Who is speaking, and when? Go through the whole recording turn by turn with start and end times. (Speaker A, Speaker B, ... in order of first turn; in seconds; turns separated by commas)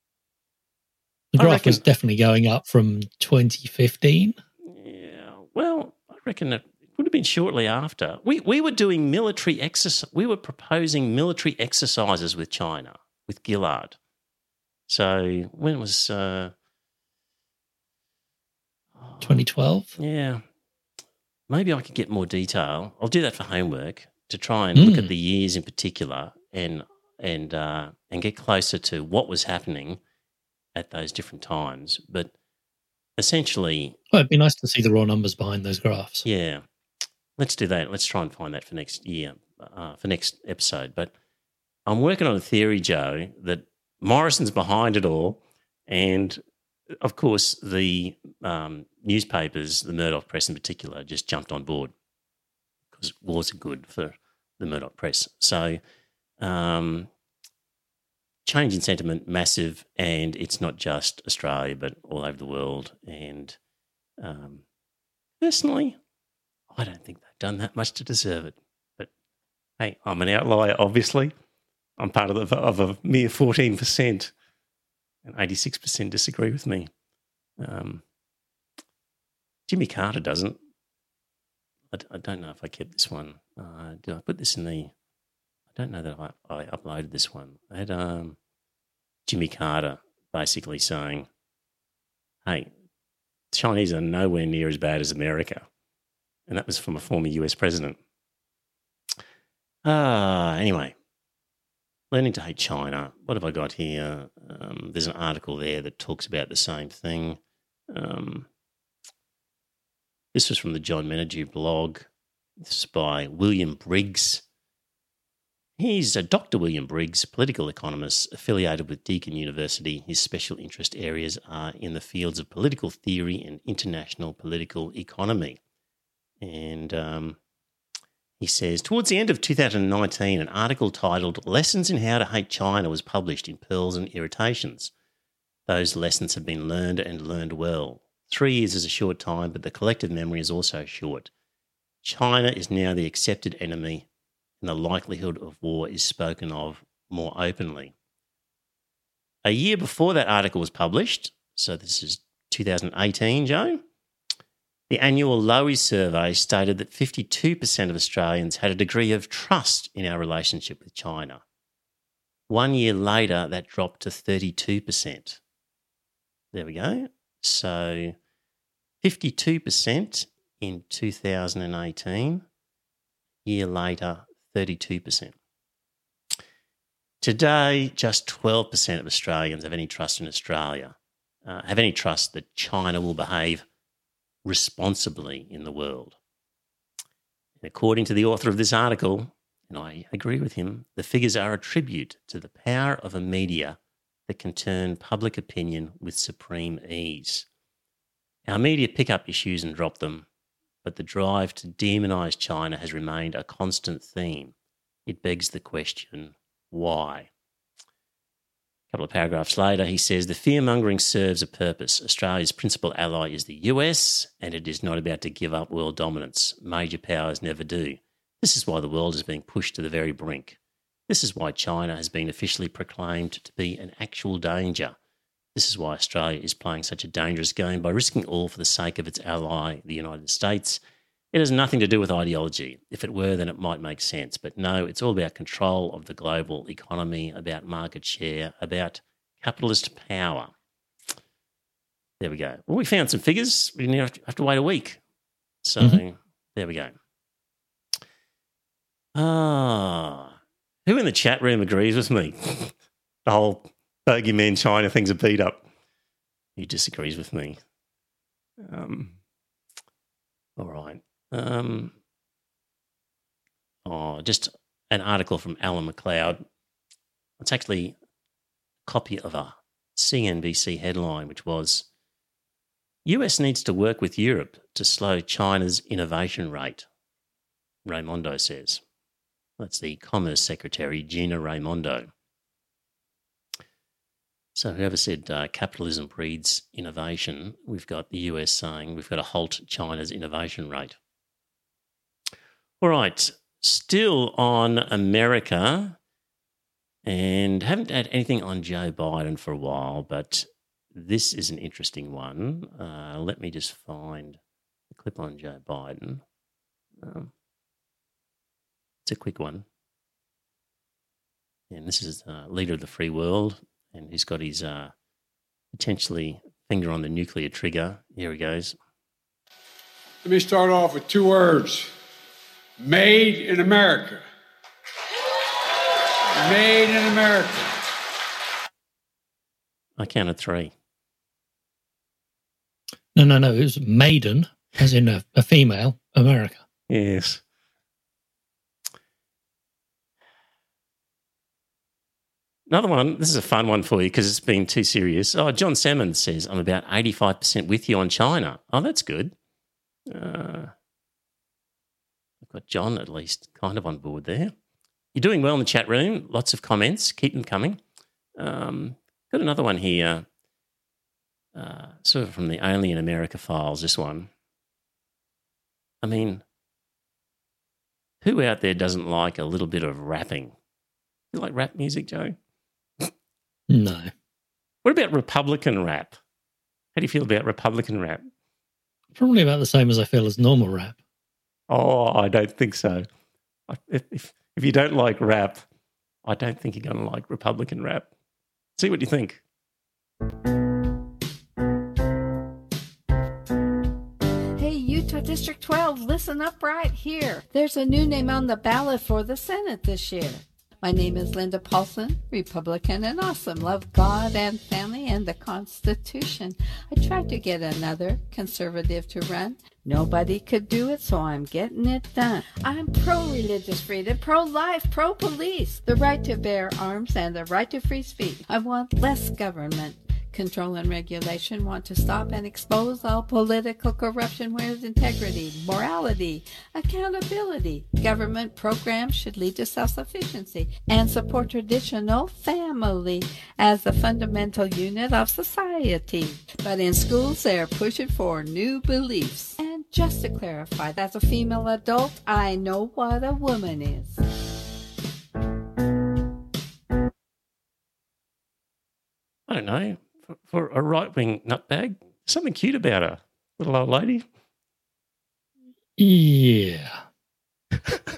Speaker A: 1.3-4.4, Speaker B: 1.4-1.8, Speaker B: 4.7-14.0, Speaker B: 14.9-16.5, Speaker B: 19.0-19.4, Speaker A: 19.2-20.0, Speaker B: 20.0-20.4, Speaker B: 21.5-30.0, Speaker A: 24.8-25.1, Speaker B: 30.8-32.3, Speaker B: 33.2-34.0, Speaker A: 34.1-36.3, Speaker B: 36.2-36.6, Speaker B: 37.4-41.1, Speaker B: 41.9-46.4, Speaker B: 46.9-51.9, Speaker B: 52.9-55.8, Speaker B: 56.4-57.1, Speaker B: 58.5-63.6, Speaker B: 64.2-64.6, Speaker B: 65.4-66.0, Speaker B: 66.7-69.1, Speaker B: 69.8-71.3, Speaker B: 72.0-74.3, Speaker B: 75.2-76.9, Speaker B: 77.6-78.0, Speaker B: 79.7-80.6, Speaker B: 81.9-84.9, Speaker B: 85.7-88.4, Speaker B: 89.3-91.3, Speaker B: 92.5-92.7, Speaker B: 93.5-95.7, Speaker B: 96.5-98.0, Speaker B: 99.8-101.0, Speaker B: 102.1-108.5, Speaker B: 110.3-114.4, Speaker B: 115.8-125.6, Speaker B: 126.4-127.4, Speaker B: 128.4-134.9, Speaker B: 135.7-141.3, Speaker B: 142.0-144.1, Speaker B: 144.6-147.9, Speaker B: 149.4-153.8, Speaker B: 154.9-161.4, Speaker B: 162.5-165.4, Speaker B: 166.5-168.2, Speaker B: 169.0-172.4, Speaker B: 173.4-175.3, Speaker B: 177.2-183.7, Speaker B: 184.4-186.2, Speaker B: 187.6-197.5, Speaker B: 198.5-200.3, Speaker B: 200.8-204.5, Speaker B: 205.1-207.3, Speaker B: 208.9-220.6, Speaker B: 221.1-225.0, Speaker B: 225.5-230.8, Speaker B: 231.3-240.5, Speaker B: 242.2-245.0, Speaker B: 245.6-246.9, Speaker B: 249.2-250.3, Speaker B: 250.9-255.7, Speaker B: 256.6-257.6, Speaker B: 258.6-259.2, Speaker B: 260.6-261.9, Speaker B: 263.9-266.4, Speaker B: 267.4-268.0, Speaker B: 268.9-271.9, Speaker B: 273.1-276.9, Speaker B: 277.9-278.8, Speaker B: 279.6-282.1, Speaker B: 284.6-291.0, Speaker B: 292.8-296.0, Speaker B: 297.0-304.4, Speaker B: 304.9-306.2, Speaker B: 307.0-307.3, Speaker B: 309.1-309.6, Speaker B: 311.7-314.9, Speaker B: 315.7-318.8, Speaker C: 320.2-321.9, Speaker C: 322.8-324.2, Speaker C: 326.4-327.7, Speaker B: 330.0-330.7, Speaker A: 333.1-336.6, Speaker B: 336.9-337.4, Speaker B: 342.7-349.3, Speaker B: 350.1-350.7, Speaker B: 352.4-354.5, Speaker B: 355.1-357.8, Speaker B: 358.4-360.3, Speaker B: 361.5-364.3, Speaker B: 366.0-366.4, Speaker B: 368.2-370.6, Speaker B: 371.3-372.4, Speaker A: 373.7-374.1, Speaker B: 374.8-376.2, Speaker B: 376.9-378.3, Speaker A: 379.1-381.0, Speaker B: 381.7-383.1, Speaker B: 383.7-385.6, Speaker B: 386.2-388.1, Speaker B: 388.8-389.4, Speaker D: 394.6-444.2, Speaker B: 449.5-454.3, Speaker A: 456.0-457.0